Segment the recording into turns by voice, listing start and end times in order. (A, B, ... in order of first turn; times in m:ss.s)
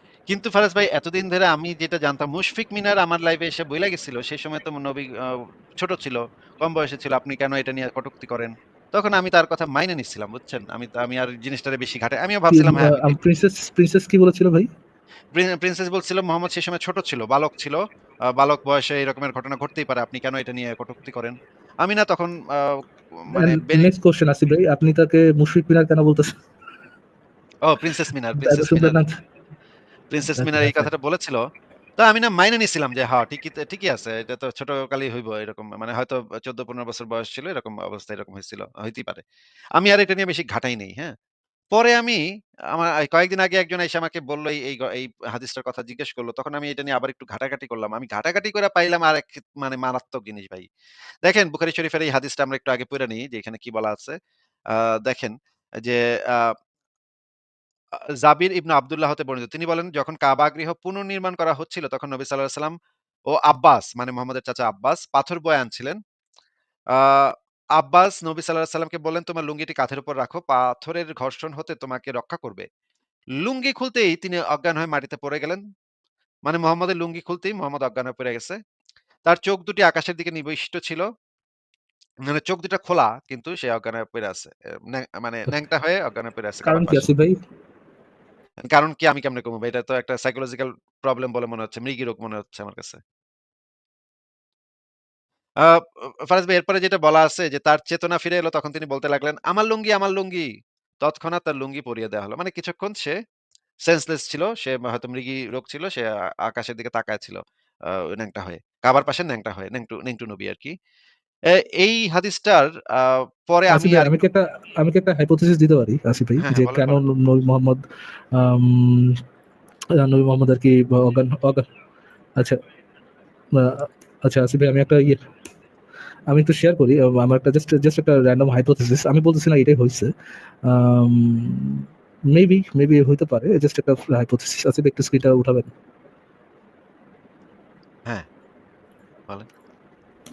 0:00.3-0:13.1 A
0:12.5-0:14.7 B
0:15.3-0:23.9 A
0:23.3-0:26.4 B
0:27.6-0:29.0 A
0:28.3-0:29.2 B
0:30.1-0:31.4 A
0:30.3-0:30.9 B
0:32.0-0:39.2 A
0:39.8-0:41.1 A
0:41.7-0:42.2 A
0:42.7-0:50.7 A
0:51.2-0:54.2 A
0:54.7-0:56.5 A
0:58.2-1:02.7 A
1:03.3-1:06.0 A
1:06.9-1:12.6 A
1:13.4-1:15.6 A
1:16.4-1:18.6 A
1:19.3-1:21.1 A
1:22.2-1:27.1 A
1:26.6-1:27.4 B
1:28.6-1:33.0 A
1:35.6-1:40.5 A
1:41.0-1:43.1 A
1:43.8-1:50.7 A
1:51.5-1:54.2 A
1:53.7-1:57.8 B
1:56.4-1:57.0 A
1:58.3-1:59.2 B
2:00.0-2:01.7 B
2:03.5-2:05.2 B
2:06.3-2:10.1 B
2:10.6-2:15.7 B